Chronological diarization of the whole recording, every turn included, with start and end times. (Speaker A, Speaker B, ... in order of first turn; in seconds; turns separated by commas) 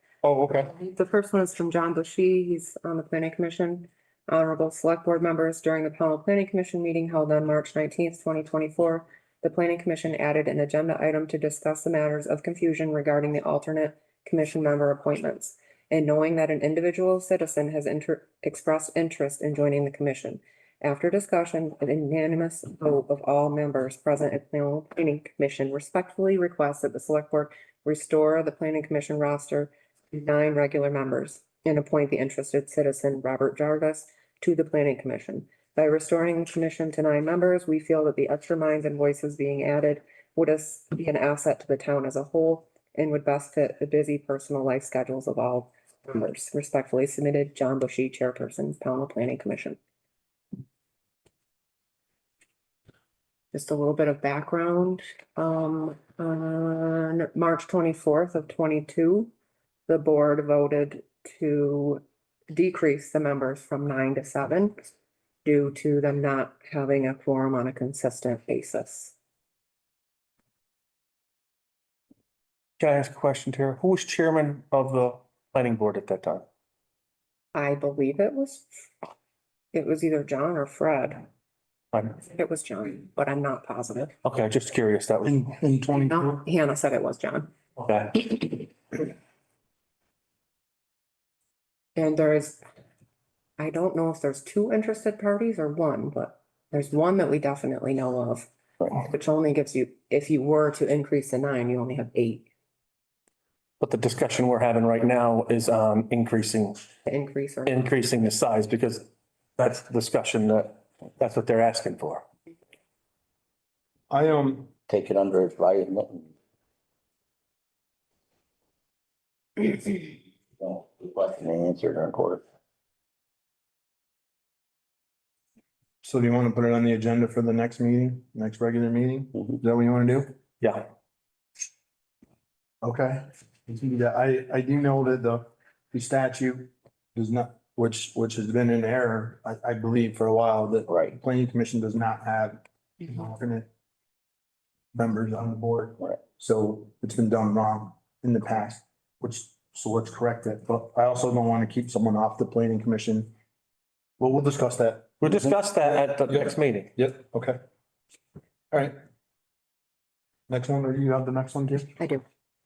Speaker A: 0.2-0.7, Speaker B: 0.6-49.8, Speaker B: 53.5-59.3, Speaker B: 59.9-64.8, Speaker B: 65.4-69.1, Speaker C: 72.8-76.4, Speaker B: 77.5-78.7, Speaker B: 79.7-81.2, Speaker B: 82.2-84.1, Speaker C: 84.2-85.5, Speaker A: 85.2-86.4, Speaker B: 85.9-87.5, Speaker C: 87.8-88.6, Speaker B: 92.0-92.6, Speaker B: 93.6-102.5, Speaker C: 103.8-106.8, Speaker B: 107.1-107.9, Speaker C: 107.6-109.0, Speaker C: 109.6-112.2, Speaker A: 114.1-114.7, Speaker D: 114.9-116.3, Speaker D: 119.6-122.4, Speaker A: 126.0-130.3, Speaker A: 132.8-143.7, Speaker D: 140.9-141.2, Speaker A: 144.9-153.3, Speaker A: 154.2-157.6, Speaker C: 155.2-156.9, Speaker A: 158.7-159.0, Speaker A: 160.5-161.9